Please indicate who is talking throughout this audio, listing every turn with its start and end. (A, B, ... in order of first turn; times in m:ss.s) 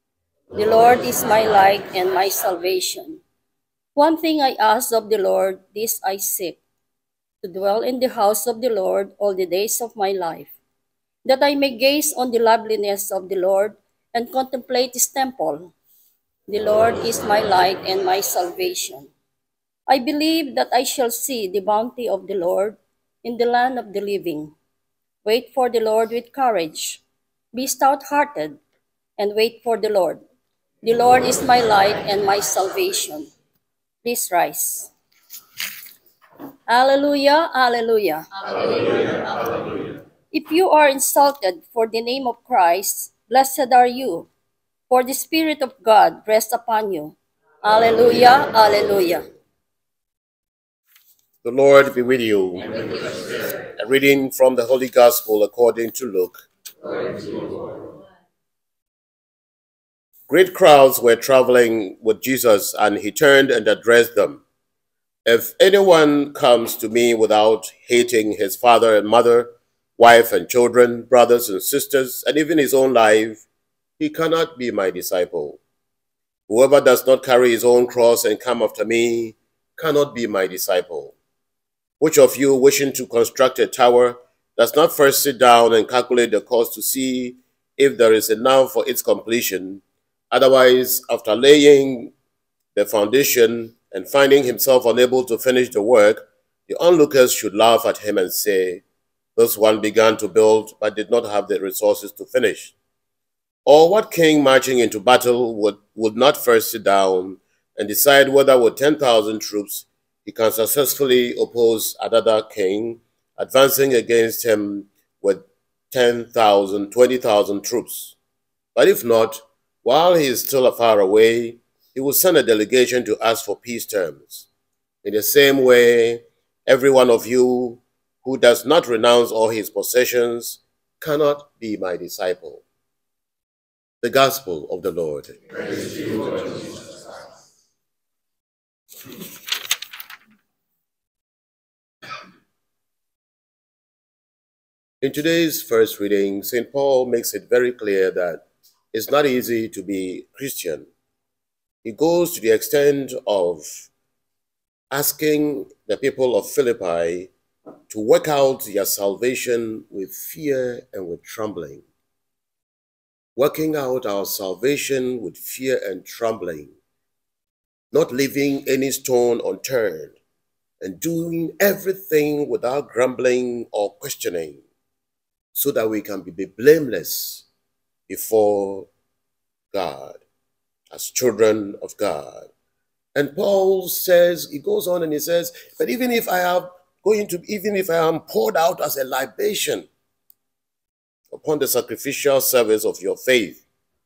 0:00.5-0:03.2 A
0:04.0-0:06.6 A
0:07.4-0:10.5 A
0:11.2-0:15.7 A
0:16.5-0:19.1 A
0:19.9-0:24.5 A
0:25.2-0:27.0 A
0:27.5-0:28.6 A
0:29.2-0:30.2 A
0:30.8-0:33.3 A
0:34.0-0:34.9 A
0:36.7-0:38.3 A
0:38.4-0:40.0 B
0:40.3-0:44.3 A
0:44.9-0:49.3 A
0:51.4-0:52.8 C
0:53.8-0:56.4 C
0:56.8-0:57.8 B
1:00.3-1:04.4 C
1:05.2-1:13.4 C
1:14.0-1:15.6 C
1:16.5-1:21.2 C
1:22.0-1:32.1 C
1:32.8-1:38.8 C
1:39.4-1:42.7 C
1:43.7-1:58.2 C
1:58.8-2:04.5 C
2:05.0-2:12.6 C
2:14.0-2:15.6 C
2:16.2-2:16.5 B
2:25.0-2:30.9 C
2:31.8-2:33.9 C
2:34.9-2:37.3 C
2:37.9-2:41.9 C
2:43.4-2:46.8 C
2:47.9-2:50.2 C
2:50.8-2:54.6 C
2:55.5-2:57.5 C
2:58.1-2:58.9 C
2:59.7-3:00.2 C
3:00.9-3:02.5 C
3:03.2-3:09.9 C
3:11.3-3:13.6 C